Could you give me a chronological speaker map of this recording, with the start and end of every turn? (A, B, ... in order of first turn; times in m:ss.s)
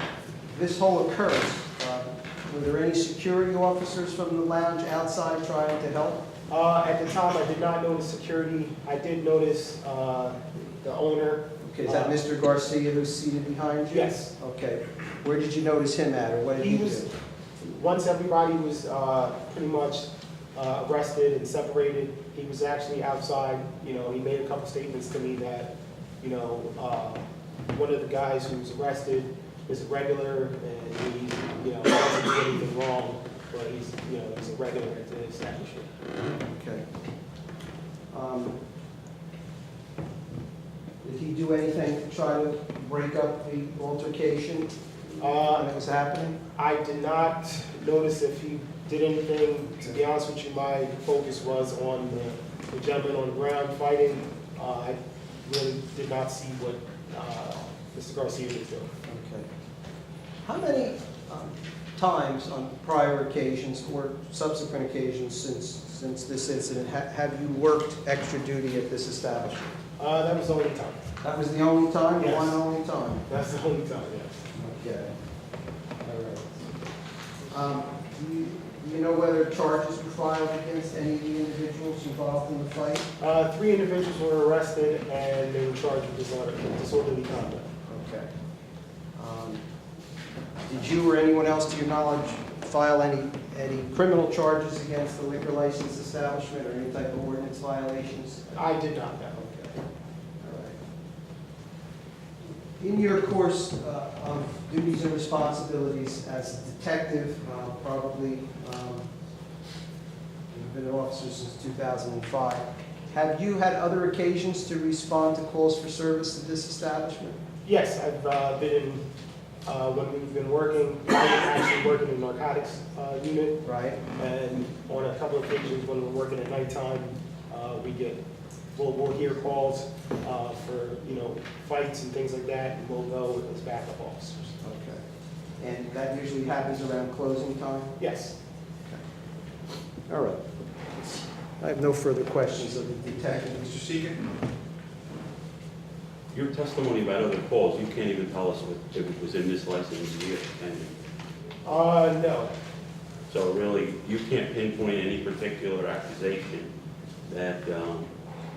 0:00.5-0:06.2 A
0:06.5-0:12.1 B
0:11.6-0:17.1 A
0:13.9-0:14.3 B
0:16.6-0:17.1 B
0:17.6-0:25.7 B
0:26.2-0:35.9 B
0:36.4-0:36.8 A
0:38.1-0:38.6 A
0:41.0-0:46.4 A
0:45.2-0:45.7 B
0:46.6-0:58.9 B
0:59.0-0:59.5 A
1:00.4-1:09.8 A
1:10.0-1:11.0 B
1:11.2-1:13.2 A
1:12.2-1:12.6 B
1:13.3-1:14.4 B
1:14.5-1:15.1 A
1:16.0-1:16.4 A
1:17.5-1:23.1 A
1:23.2-1:27.7 B
1:27.9-1:28.3 A
1:29.2-1:29.6 A
1:30.7-1:38.6 A
1:38.6-1:39.4 B
1:39.4-1:39.8 A
1:40.4-1:40.8 A
1:42.8-1:49.0 A
1:50.5-1:57.4 A
1:57.6-1:59.0 B
1:59.7-2:03.6 B
2:03.6-2:04.0 A
2:04.2-2:08.2 B
2:08.8-2:14.6 B
2:14.6-2:15.0 A
2:15.6-2:17.9 A
2:18.0-2:18.3 B
2:20.1-2:24.3 A
2:26.3-2:30.9 C
2:31.6-2:32.5 B
2:33.3-2:36.7 C
2:37.3-2:38.1 C